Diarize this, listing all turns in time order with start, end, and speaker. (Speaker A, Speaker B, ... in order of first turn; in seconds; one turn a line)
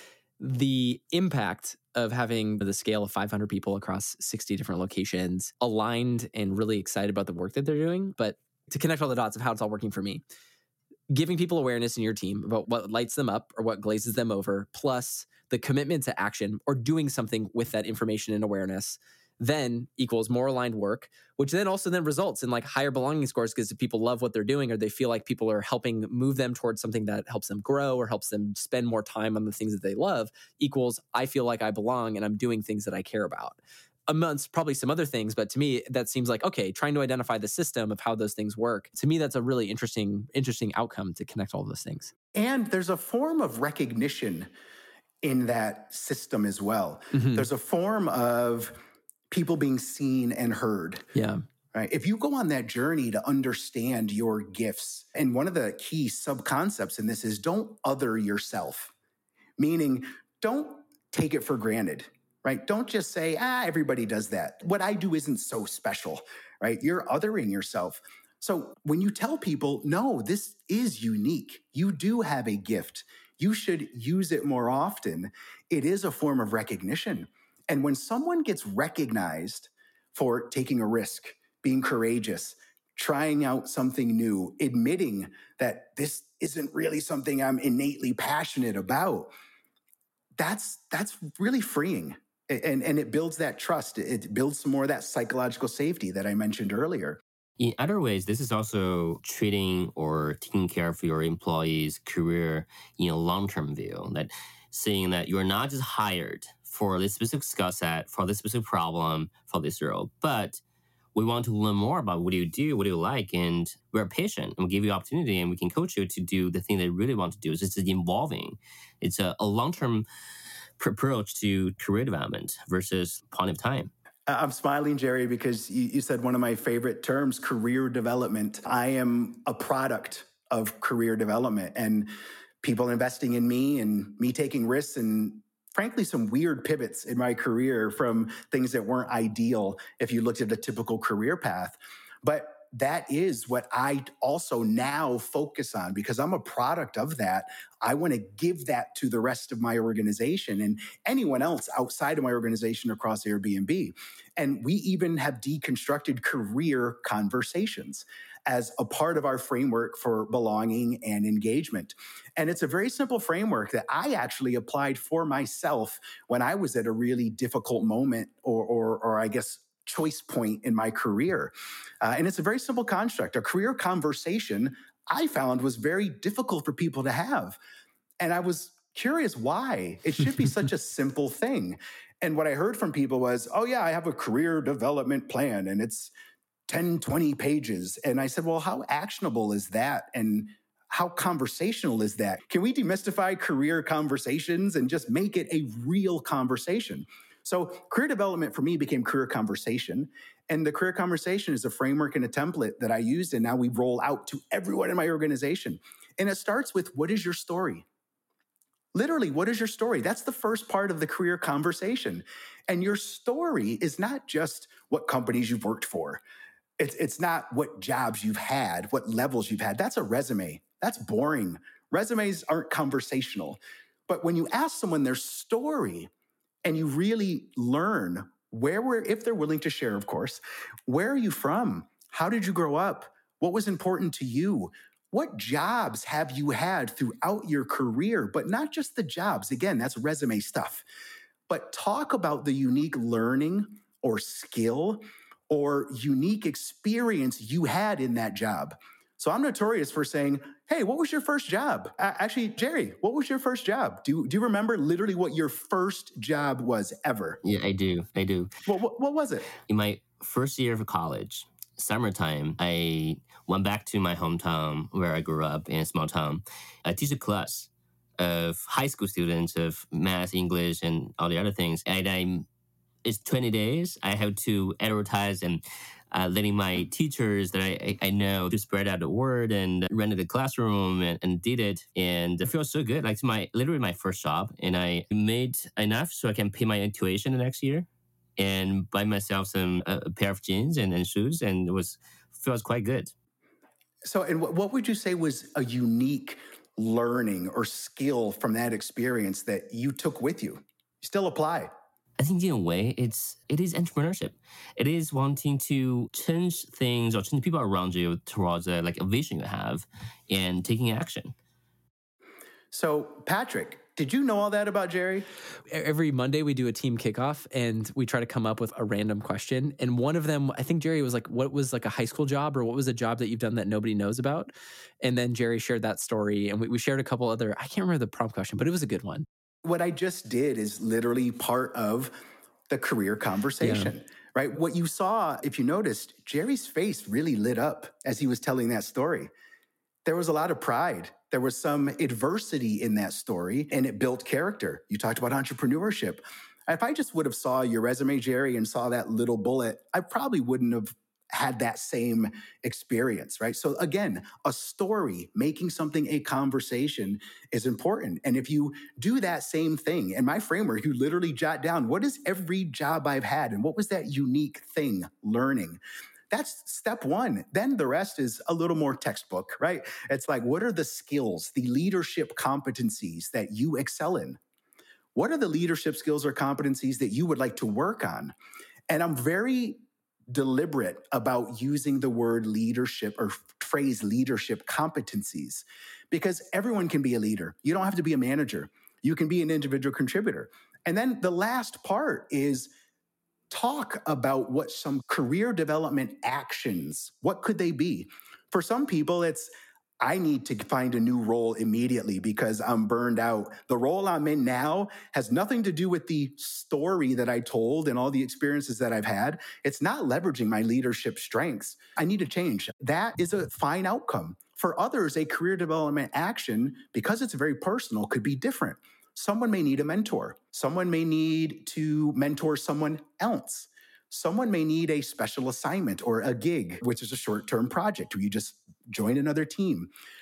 Speaker A: 0.4-10.2
Speaker A: 11.1-42.1
Speaker B: 42.3-44.5
Speaker B: 45.2-48.8
Speaker A: 47.1-47.5
Speaker B: 49.3-51.1
Speaker A: 51.1-51.4
Speaker B: 51.7-58.9
Speaker B: 59.6-89.3
Speaker B: 90.4-97.2
Speaker C: 97.6-110.6
Speaker C: 111.2-120.1
Speaker C: 120.8-123.9
Speaker B: 124.3-132.1
Speaker B: 132.6-177.6
Speaker B: 178.2-186.1
Speaker B: 186.7-207.8
Speaker B: 208.9-216.2
Speaker B: 216.8-226.1
Speaker B: 226.6-240.8
Speaker B: 241.5-257.4
Speaker C: 257.4-258.5
Speaker B: 258.7-259.5
Speaker C: 259.7-272.5
Speaker C: 273.0-287.9
Speaker C: 288.4-293.1
Speaker B: 294.1-301.7
Speaker C: 302.2-311.3
Speaker B: 312.7-315.3
Speaker A: 315.7-329.3
Speaker B: 329.6-332.2
Speaker B: 332.7-339.3
Speaker A: 333.6-333.9
Speaker B: 340.1-365.8
Speaker B: 366.3-374.4
Speaker B: 375.1-378.3
Speaker B: 378.9-392.7
Speaker B: 393.5-429.9